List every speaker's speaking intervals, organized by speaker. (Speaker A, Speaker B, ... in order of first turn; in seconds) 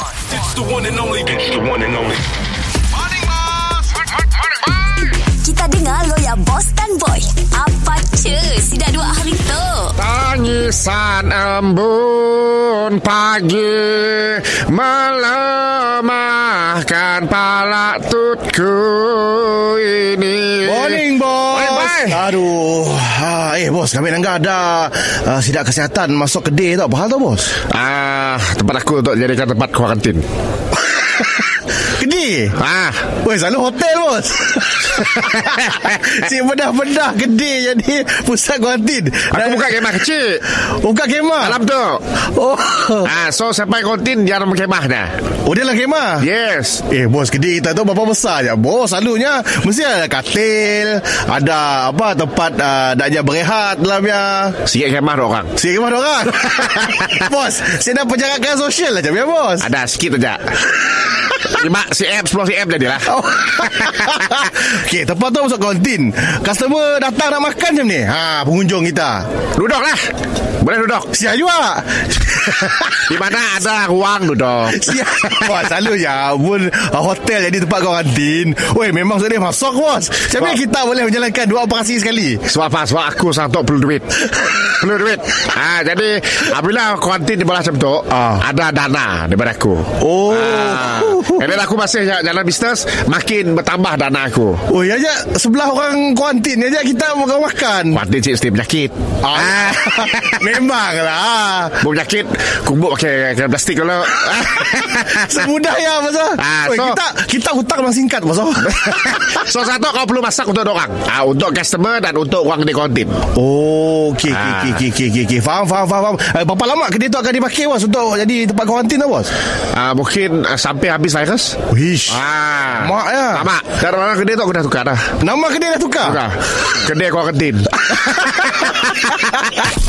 Speaker A: 0.3-2.3
Speaker B: 3.2-3.6, 20.6-27.6, 31.9-32.5, 33.2-41.6, 42.2-43.1, 45.5-46.3, 46.9-54.6, 55.6-59.7, 63.1-69.3, 71.1-73.1, 74.7-82.4, 88.1-88.4, 90.0-91.6, 94.7-98.0, 99.2-101.8, 105.0-109.5, 113.3-119.3, 121.7-122.2, 122.8-123.5, 125.2-126.2
Speaker C: 5.2-10.0
Speaker D: 10.0-22.2, 27.7-30.2, 32.6-33.0, 34.9-36.2, 39.3-40.4, 41.4-42.0, 43.0-45.1, 46.2-46.8, 54.6-55.5, 56.6-57.1, 59.6-64.5, 69.6-70.0, 70.6-71.1, 72.8-75.8, 82.5-94.6, 97.9-100.6, 101.8-105.5, 106.4-107.0, 108.7-113.2, 114.3-114.8, 119.7-121.6, 122.1-125.1, 126.0-129.5